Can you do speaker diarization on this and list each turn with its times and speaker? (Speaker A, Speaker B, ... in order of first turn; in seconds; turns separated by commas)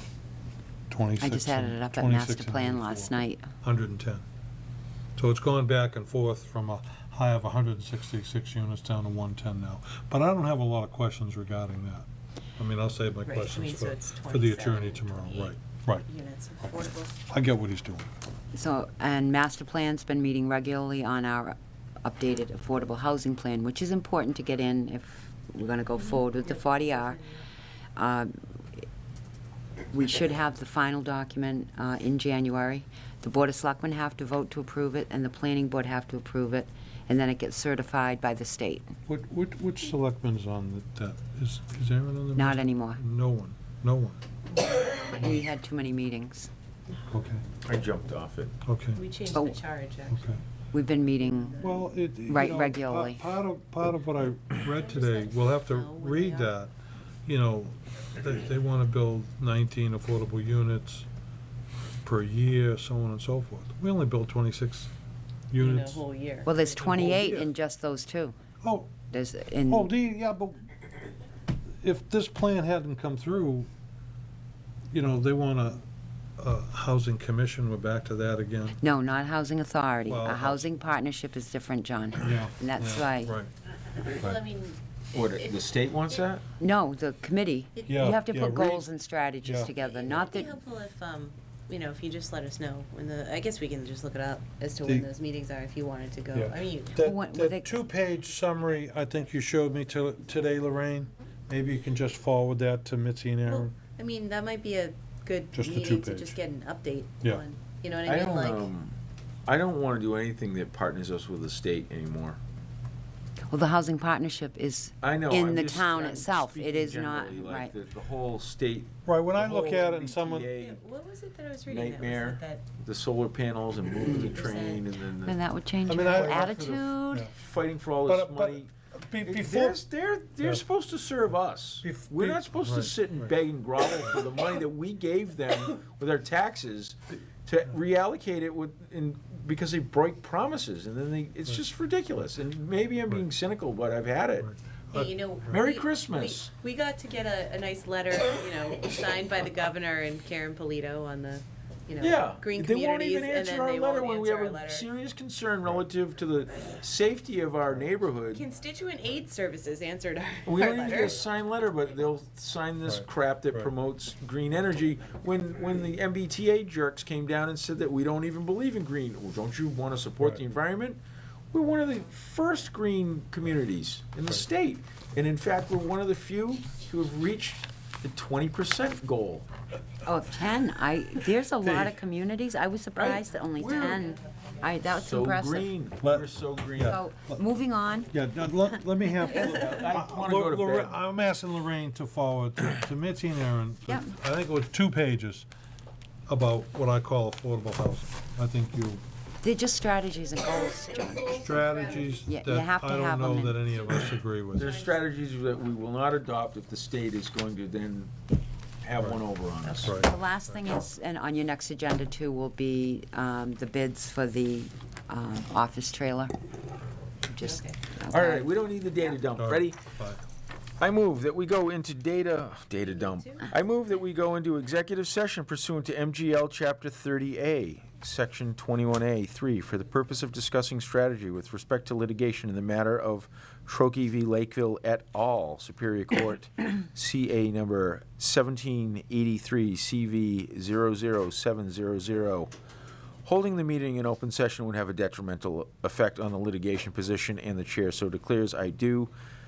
Speaker A: 0.9-4.2, Speaker B: 1.2-3.5, Speaker A: 5.2-12.1, Speaker A: 12.6-16.0, Speaker C: 13.2-17.1, Speaker A: 17.2-18.1, Speaker B: 18.5-27.2, Speaker C: 26.1-27.4, Speaker B: 27.9-28.8, Speaker B: 29.9-38.9, Speaker A: 39.0-44.2, Speaker B: 42.3-43.0, Speaker B: 45.1-46.5, Speaker A: 47.1-47.4, Speaker D: 47.6-48.5, Speaker A: 48.6-49.0, Speaker C: 48.9-50.4, Speaker B: 49.3-49.6, Speaker A: 50.1-50.4, Speaker B: 50.7-51.6, Speaker C: 51.1-51.9, Speaker A: 51.6-56.7, Speaker B: 52.2-53.3, Speaker C: 54.7-56.5, Speaker A: 57.2-61.1, Speaker A: 62.0-64.9, Speaker A: 65.5-66.0, Speaker C: 65.6-66.5, Speaker B: 66.4-68.3, Speaker A: 66.8-67.5, Speaker A: 68.6-69.0, Speaker B: 69.1-69.9, Speaker A: 69.7-70.6, Speaker A: 71.8-73.7, Speaker A: 74.9-75.8, Speaker A: 76.4-78.8, Speaker B: 78.8-83.3, Speaker A: 80.1-80.7, Speaker A: 82.2-83.5, Speaker C: 84.0-85.6, Speaker D: 85.1-86.4, Speaker B: 86.6-90.5, Speaker A: 87.8-88.8, Speaker A: 89.4-89.8, Speaker C: 89.9-97.0, Speaker A: 96.3-103.7, Speaker B: 97.0-97.8, Speaker C: 103.4-108.7, Speaker A: 105.5-106.4, Speaker D: 108.0-112.4, Speaker B: 113.5-117.7, Speaker D: 115.0-120.8, Speaker A: 119.0-120.5, Speaker C: 120.5-122.6, Speaker D: 121.7-125.4, Speaker C: 124.0-124.8, Speaker B: 124.0-124.3, Speaker B: 125.2-127.3, Speaker A: 125.8-127.3, Speaker D: 127.3-128.7, Speaker A: 128.1-129.8, Speaker D: 129.2-144.5, Speaker A: 131.8-133.3, Speaker A: 144.4-145.6, Speaker C: 144.9-154.9, Speaker D: 145.5-146.5, Speaker D: 152.0-158.4, Speaker C: 158.3-161.2, Speaker D: 160.4-171.0, Speaker A: 162.8-163.7, Speaker D: 171.5-179.5, Speaker B: 180.0-185.7, Speaker A: 181.6-181.9, Speaker D: 183.0-184.1, Speaker D: 184.9-187.0, Speaker A: 186.0-187.4, Speaker B: 186.9-188.1, Speaker A: 188.1-195.5, Speaker D: 189.3-191.0, Speaker B: 193.9-194.2, Speaker A: 196.3-199.0, Speaker B: 199.4-201.6, Speaker A: 201.3-204.8, Speaker B: 202.2-203.7, Speaker D: 204.5-208.1, Speaker D: 208.8-210.0, Speaker C: 209.6-209.9, Speaker A: 209.8-210.6, Speaker B: 210.0-216.3, Speaker B: 217.3-218.5, Speaker C: 217.4-217.8, Speaker D: 218.1-219.8, Speaker A: 219.4-220.2, Speaker D: 220.8-242.5, Speaker C: 222.9-223.4, Speaker D: 243.2-249.1